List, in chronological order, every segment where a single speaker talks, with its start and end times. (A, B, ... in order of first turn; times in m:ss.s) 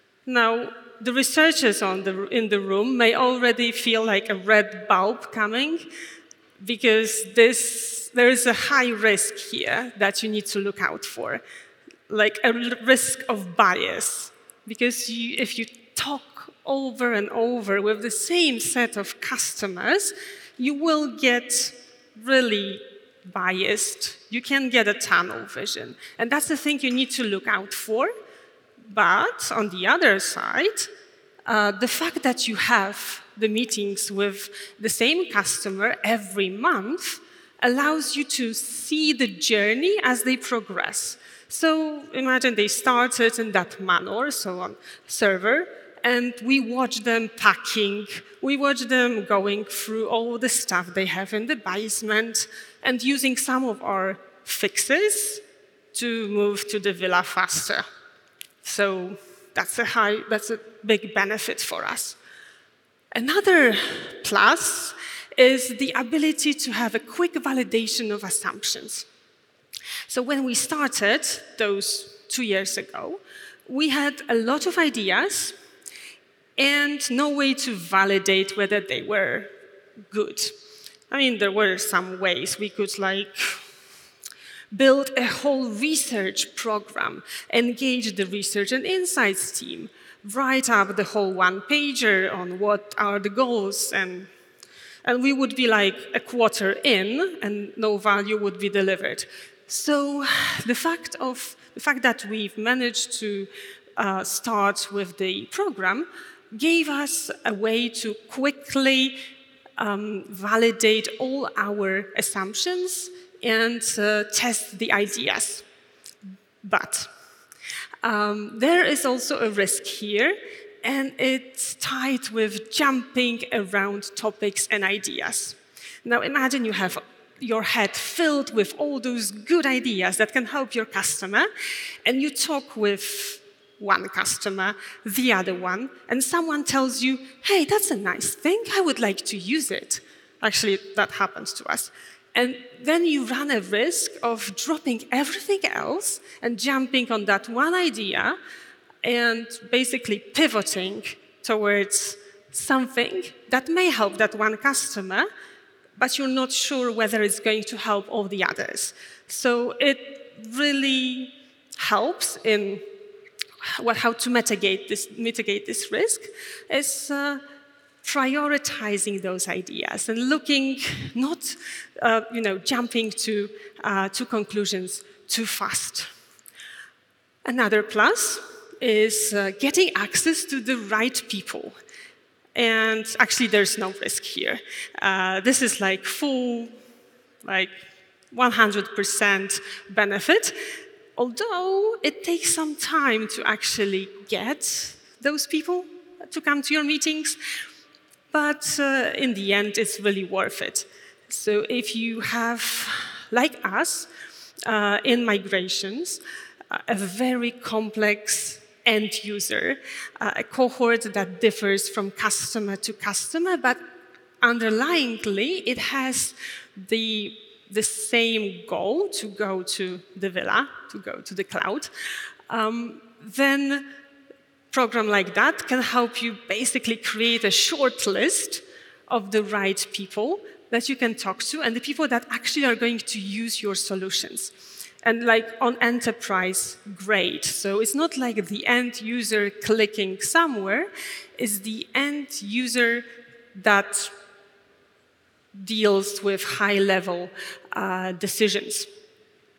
0:00.2-0:05.9 A
0:06.6-0:11.4 A
0:12.1-0:28.1 A
0:28.9-0:30.9 A
0:31.4-0:55.4 A
0:55.9-0:57.8 A
0:58.6-1:02.2 A
1:03.1-1:09.0 A
1:10.1-1:15.5 A
1:16.6-1:19.5 A
1:20.1-1:20.5 A
1:21.1-1:23.6 A
1:24.7-1:34.3 A
1:35.0-1:49.2 A
1:49.8-1:55.6 A
1:56.6-1:57.1 A
1:58.0-2:11.5 A
2:12.0-2:28.4 A
2:29.0-2:35.3 A
2:36.0-2:42.8 A
2:43.7-2:47.4 A
2:48.0-2:56.1 A
2:57.4-3:01.7 A
3:02.5-3:06.7 A
3:07.4-3:07.8 A
3:08.3-3:10.6 A
3:11.2-3:17.4 A
3:18.3-3:24.1 A
3:24.6-3:33.8 A
3:34.4-3:41.9 A
3:42.5-3:43.9 A
3:44.7-4:04.1 A
4:05.5-4:08.9 A